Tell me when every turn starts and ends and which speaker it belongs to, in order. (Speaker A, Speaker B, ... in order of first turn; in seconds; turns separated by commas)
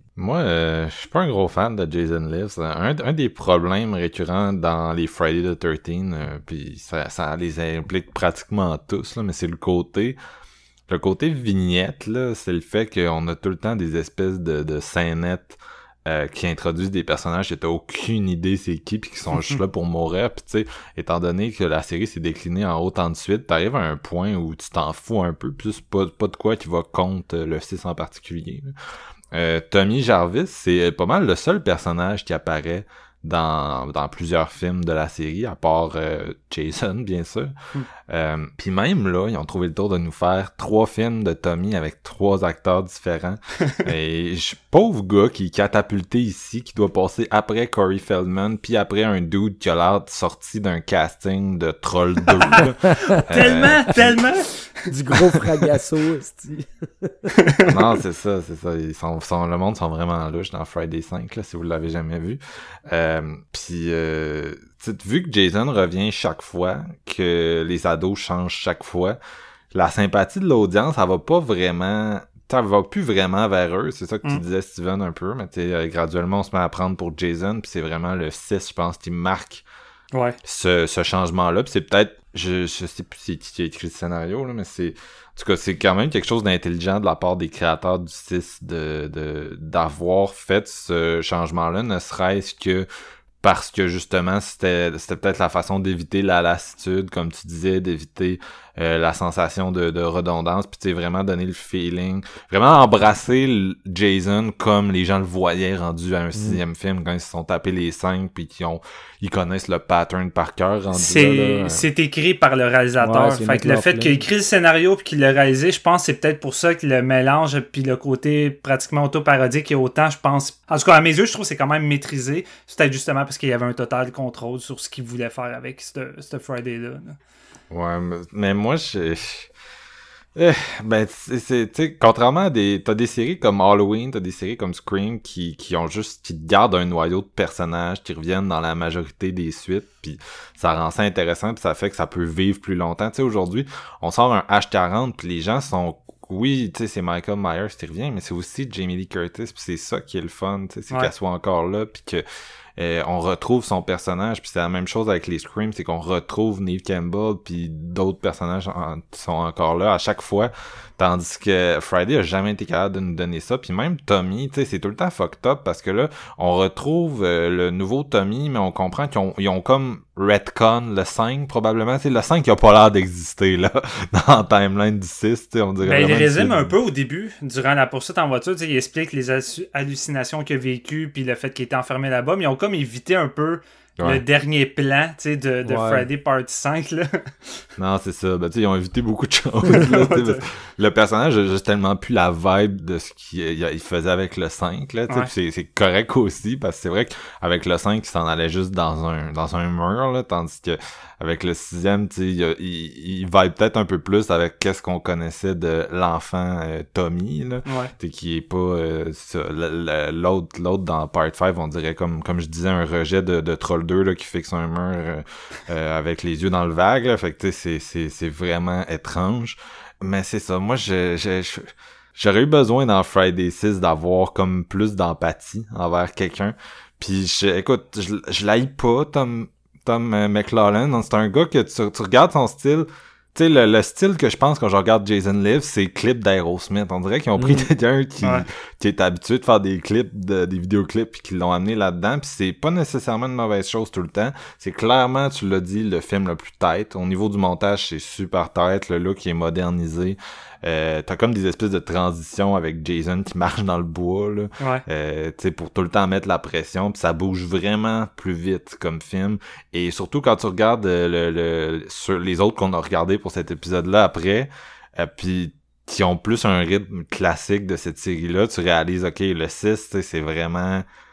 Speaker A: 0.2-10.2, Speaker A: 10.9-28.7, Speaker A: 29.3-37.5, Speaker A: 38.1-54.2, Speaker B: 52.5-54.5, Speaker C: 52.9-53.2, Speaker C: 54.9-57.3, Speaker B: 57.4-57.7, Speaker A: 57.7-69.2, Speaker A: 69.7-79.6, Speaker A: 80.4-92.9, Speaker A: 93.4-111.8, Speaker C: 106.3-106.6, Speaker B: 110.9-127.2, Speaker C: 113.0-114.2, Speaker A: 127.7-129.5, Speaker A: 130.3-152.2, Speaker A: 152.8-176.8, Speaker B: 175.8-187.5, Speaker C: 185.7-186.1, Speaker A: 187.8-270.8, Speaker B: 189.7-190.4, Speaker B: 207.7-207.9, Speaker C: 237.4-237.7